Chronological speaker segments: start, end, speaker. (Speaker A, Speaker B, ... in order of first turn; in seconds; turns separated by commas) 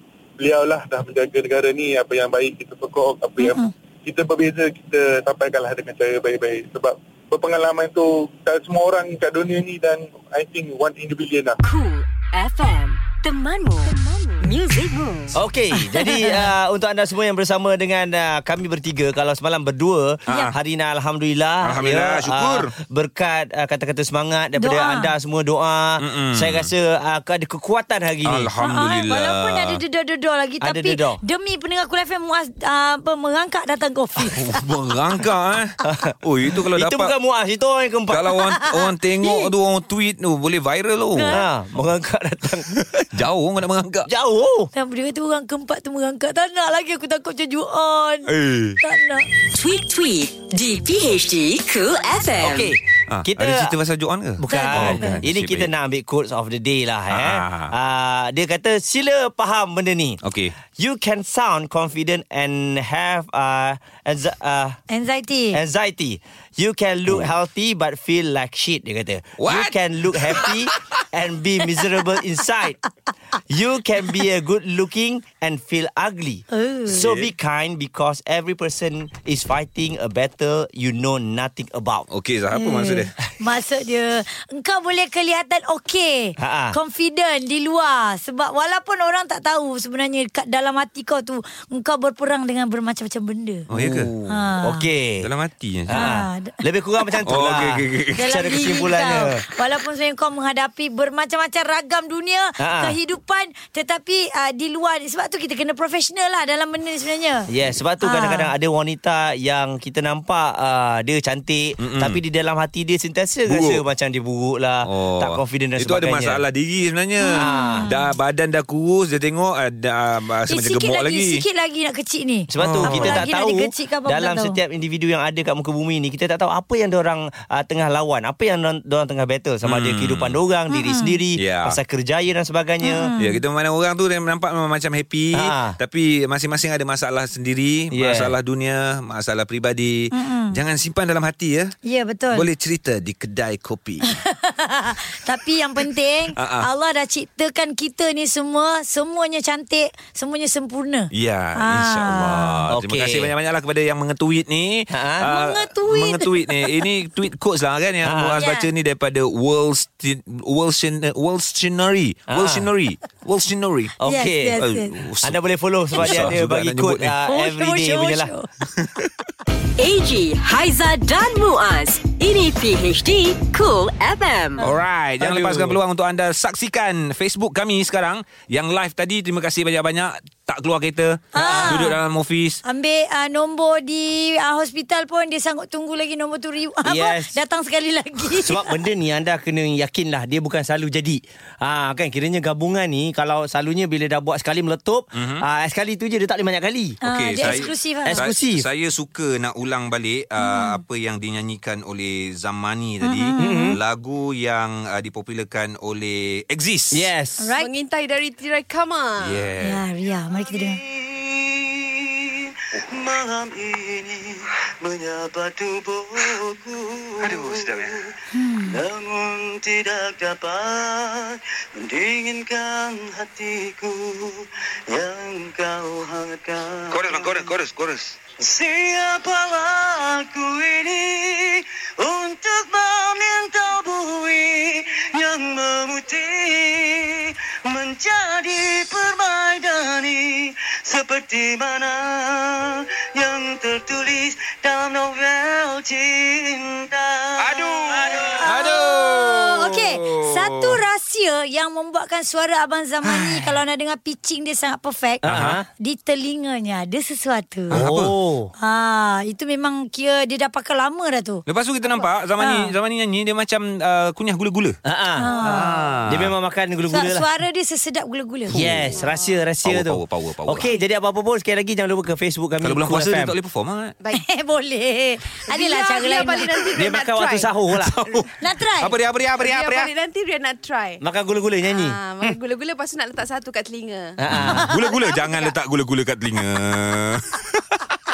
Speaker A: 0.4-11.6, Speaker B: 3.4-3.7, Speaker C: 11.6-15.4, Speaker D: 15.3-28.5, Speaker E: 20.3-20.5, Speaker E: 21.6-22.7, Speaker B: 24.6-25.1, Speaker E: 26.0-26.7, Speaker E: 28.2-29.8, Speaker B: 28.6-34.6, Speaker D: 30.6-31.2, Speaker E: 34.3-37.1, Speaker D: 35.8-36.1, Speaker D: 36.7-38.3, Speaker E: 38.1-41.4, Speaker B: 38.4-39.5, Speaker B: 41.1-41.4, Speaker D: 41.3-42.7, Speaker E: 42.7-44.1, Speaker D: 44.1-44.7, Speaker B: 44.7-49.3, Speaker E: 48.3-48.8, Speaker C: 49.5-52.7, Speaker D: 52.4-53.7, Speaker E: 52.5-55.7, Speaker D: 54.4-60.2, Speaker B: 54.5-55.2, Speaker E: 57.1-57.7, Speaker E: 60.2-60.5, Speaker D: 60.8-64.8, Speaker B: 64.9-65.6, Speaker D: 65.5-72.8, Speaker E: 69.4-70.8, Speaker D: 73.5-82.0, Speaker B: 76.5-77.1, Speaker E: 76.9-77.3, Speaker E: 82.1-83.1, Speaker B: 82.5-93.7, Speaker D: 86.4-86.8, Speaker E: 93.7-94.5, Speaker D: 93.7-95.3, Speaker B: 94.3-94.8, Speaker E: 95.2-96.1, Speaker D: 95.9-99.4, Speaker B: 95.9-97.1, Speaker E: 97.2-98.3, Speaker B: 98.1-107.5, Speaker D: 102.6-103.0, Speaker D: 107.5-116.4, Speaker B: 108.0-108.5, Speaker E: 111.8-112.2, Speaker E: 113.5-113.8, Speaker E: 114.8-121.4, Speaker B: 117.2-118.1, Speaker D: 117.3-117.9, Speaker B: 120.5-124.6, Speaker D: 122.5-133.1, Speaker E: 122.6-123.3, Speaker E: 129.6-130.4, Speaker B: 130.7-131.2, Speaker E: 131.3-131.8, Speaker B: 132.8-133.4, Speaker E: 133.2-141.7, Speaker D: 135.3-135.8, Speaker D: 137.9-138.3, Speaker B: 140.1-140.6, Speaker B: 141.8-142.5, Speaker E: 142.3-144.2, Speaker B: 144.1-152.6, Speaker E: 146.3-146.7, Speaker E: 151.1-163.9, Speaker D: 152.7-153.3, Speaker D: 154.9-155.3, Speaker B: 155.3-156.8, Speaker D: 158.0-158.4, Speaker B: 158.4-158.7, Speaker D: 162.3-162.7, Speaker D: 164.0-164.6, Speaker B: 164.1-164.9, Speaker E: 164.5-165.4, Speaker D: 165.2-168.3, Speaker E: 165.9-167.1, Speaker B: 166.0-166.3, Speaker B: 167.3-168.5, Speaker E: 168.7-169.1, Speaker C: 169.8-174.6, Speaker E: 174.6-182.6, Speaker D: 175.2-175.8, Speaker B: 181.3-182.0, Speaker D: 181.4-181.9, Speaker B: 182.6-188.7, Speaker D: 186.8-187.3, Speaker D: 188.3-197.5, Speaker E: 195.1-195.4, Speaker E: 197.0-207.0, Speaker B: 197.0-198.2, Speaker D: 198.1-198.7, Speaker B: 200.4-200.8, Speaker B: 203.0-203.8, Speaker D: 203.4-203.8, Speaker D: 206.9-207.5, Speaker B: 207.4-207.7, Speaker F: 207.6-209.5, Speaker E: 209.2-209.8, Speaker B: 209.6-210.8, Speaker G: 210.9-211.5, Speaker G: 213.0-214.3, Speaker G: 215.0-216.2, Speaker D: 215.4-217.9, Speaker E: 217.2-218.0, Speaker B: 218.3-218.8, Speaker D: 218.8-219.6, Speaker G: 219.8-220.8, Speaker G: 221.9-224.1, Speaker D: 223.1-223.6, Speaker G: 225.0-225.3, Speaker D: 225.2-226.1, Speaker D: 226.7-227.2, Speaker E: 226.9-228.1, Speaker G: 228.5-236.9, Speaker D: 237.8-238.4, Speaker G: 238.2-242.5, Speaker G: 243.2-248.3, Speaker E: 247.4-250.8, Speaker D: 247.8-248.4, Speaker B: 248.4-255.3, Speaker E: 253.0-253.5, Speaker E: 255.2-255.6, Speaker D: 255.2-255.7, Speaker B: 255.8-257.8, Speaker E: 257.7-258.1, Speaker D: 257.7-258.5, Speaker B: 258.6-262.7, Speaker E: 261.5-264.8, Speaker D: 264.8-267.3, Speaker B: 265.1-265.8, Speaker E: 265.3-266.3, Speaker B: 266.9-269.1, Speaker E: 268.5-268.9, Speaker D: 268.5-273.3, Speaker E: 269.6-270.7, Speaker E: 272.6-273.9, Speaker B: 274.1-276.8, Speaker F: 275.5-278.3, Speaker D: 276.8-278.0, Speaker E: 277.9-278.3, Speaker B: 278.4-278.9, Speaker E: 278.8-279.9, Speaker F: 279.4-281.0, Speaker D: 281.0-282.4, Speaker F: 281.6-284.2, Speaker D: 284.2-284.7, Speaker E: 284.3-287.8, Speaker B: 284.5-284.8, Speaker F: 284.9-285.6